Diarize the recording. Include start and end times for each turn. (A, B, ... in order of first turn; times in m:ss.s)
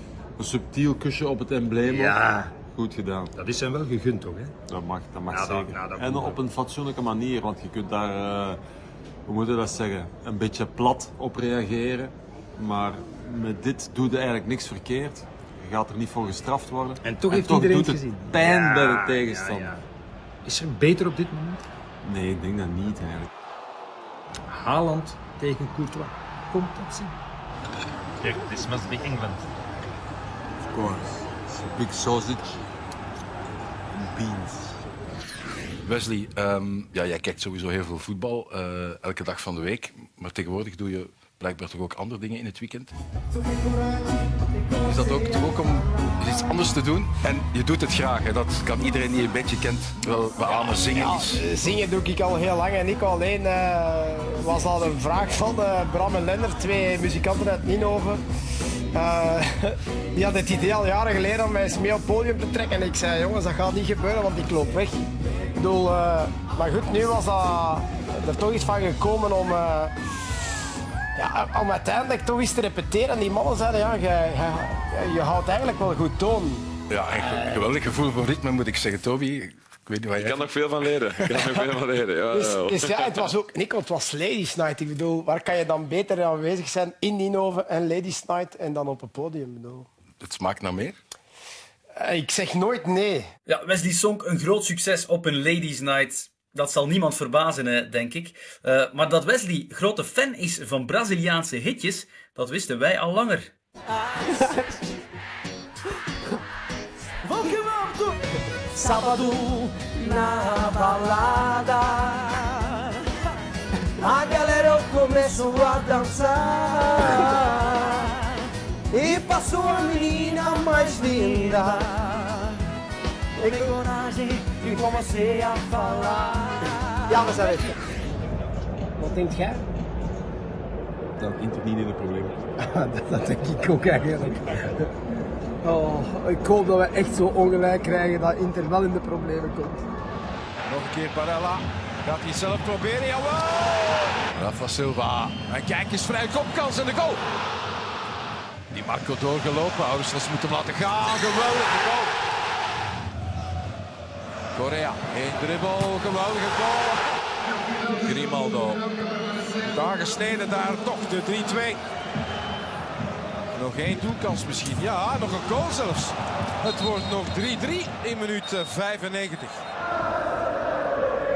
0:00.4-0:03.3 A
0:01.8-0:02.6 B
0:03.3-0:04.5 B
0:04.7-0:08.6 A
0:05.3-0:06.4 B
0:09.2-0:19.8 A
0:17.0-0:19.8 B
0:20.4-0:21.6 B
0:22.0-0:23.3 A
0:24.5-0:27.1 B
0:28.2-0:29.5 B
0:30.7-0:32.6 A
0:33.9-0:34.8 A
0:35.8-0:42.9 C
0:44.8-0:51.4 C
0:50.8-0:58.2 D
0:58.9-1:05.0 D
1:05.6-1:09.9 D
1:11.1-1:16.6 D
1:16.9-1:20.3 C
1:20.2-1:23.0 E
1:21.0-1:29.9 D
1:30.2-1:31.0 C
1:32.0-1:33.2 D
1:33.5-1:43.5 F
1:47.3-1:48.1 G
1:48.7-1:52.5 G
1:54.0-1:58.1 G
1:58.9-2:02.5 G
2:03.4-2:07.3 G
2:07.1-2:07.7 D
2:09.0-2:09.6 D
2:11.2-2:12.4 A
2:12.6-2:14.8 D
2:15.6-2:19.8 D
2:20.7-2:27.2 H
2:24.5-2:25.2 C
2:25.8-2:26.6 C
2:28.7-2:32.1 H
2:30.1-2:31.6 C
2:34.5-2:36.9 H
2:34.6-2:36.8 C
2:38.0-2:38.8 H
2:38.2-2:38.5 C
2:39.7-2:41.8 H
2:39.8-2:41.5 C
2:43.5-2:49.6 H
2:43.7-2:44.5 C
2:47.3-2:47.6 C